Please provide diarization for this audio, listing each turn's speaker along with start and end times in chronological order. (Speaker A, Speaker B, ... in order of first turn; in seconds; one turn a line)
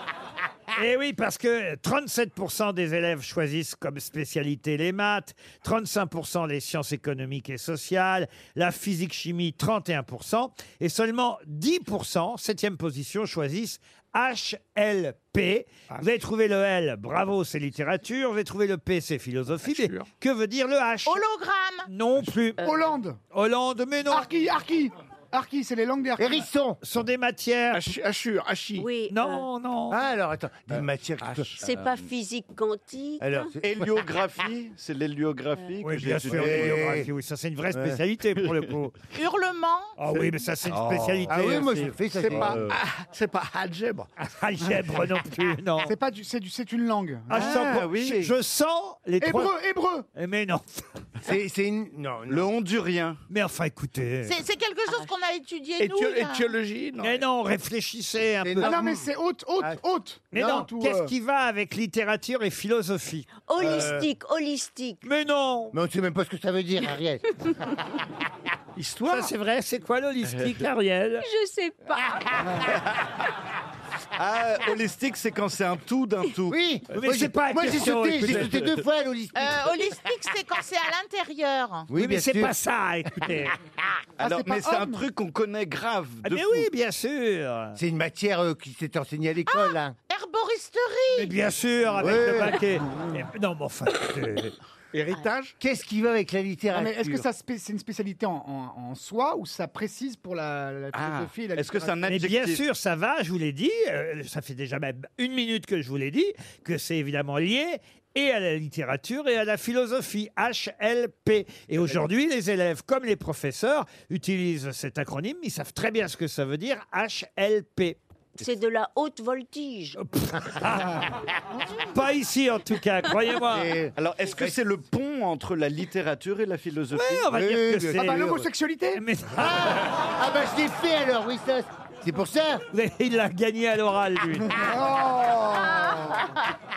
Speaker A: 0.7-21.2
Speaker B: 19.6-20.1
Speaker C: 21.1-21.9
Speaker A: 21.9-22.6
Speaker D: 22.6-23.2
Speaker A: 23.3-24.3
Speaker D: 24.1-26.5
Speaker E: 26.2-26.8
Speaker A: 26.8-27.9
Speaker B: 27.7-28.9
Speaker F: 28.8-29.4
Speaker A: 29.1-30.0
Speaker E: 29.9-31.5
Speaker F: 31.6-33.5
Speaker G: 31.6-32.1
Speaker E: 33.2-33.9
Speaker G: 33.6-37.1
Speaker A: 35.8-38.9
Speaker E: 36.2-37.1
Speaker E: 37.7-38.0
Speaker C: 39.1-39.9
Speaker A: 40.0-42.0
Speaker G: 40.7-42.8
Speaker E: 41.3-42.6
Speaker B: 42.1-44.1
Speaker A: 44.2-45.9
Speaker D: 45.8-47.7
Speaker A: 47.3-49.5
Speaker G: 47.3-48.3
Speaker D: 49.2-50.1
Speaker A: 50.1-50.8
Speaker E: 51.2-52.5
Speaker G: 52.3-53.2
Speaker A: 53.3-54.4
Speaker C: 54.2-56.5
Speaker B: 55.8-57.2
Speaker A: 57.0-58.8
Speaker E: 58.4-59.8
Speaker D: 58.6-61.1
Speaker A: 60.3-63.3
Speaker E: 60.3-60.6
Speaker F: 63.4-65.0
Speaker E: 63.6-64.1
Speaker A: 65.0-65.7
Speaker E: 65.7-67.5
Speaker B: 68.8-69.3
Speaker A: 69.0-71.2
Speaker F: 71.2-72.1
Speaker G: 74.2-76.6
Speaker E: 76.5-80.0
Speaker A: 76.9-78.8
Speaker C: 79.3-81.9
Speaker E: 81.9-82.5
Speaker A: 82.0-83.5
Speaker G: 84.2-86.7
Speaker D: 84.2-85.0
Speaker A: 86.2-87.8
Speaker E: 87.7-89.9
Speaker C: 89.5-91.3
Speaker A: 91.1-94.5
Speaker E: 92.0-93.0
Speaker B: 94.9-95.6
Speaker E: 95.6-97.2
Speaker D: 96.7-102.0
Speaker G: 100.9-102.6
Speaker A: 102.0-118.0
Speaker F: 118.4-120.0
Speaker A: 120.0-121.0
Speaker A: 121.9-123.7
Speaker E: 123.5-124.5
Speaker G: 124.0-127.3
Speaker A: 126.9-128.3
Speaker E: 127.3-128.5
Speaker D: 127.9-129.0
Speaker A: 128.9-129.9
Speaker E: 129.3-132.6
Speaker A: 132.7-134.7
Speaker D: 134.5-136.2
Speaker F: 135.9-136.3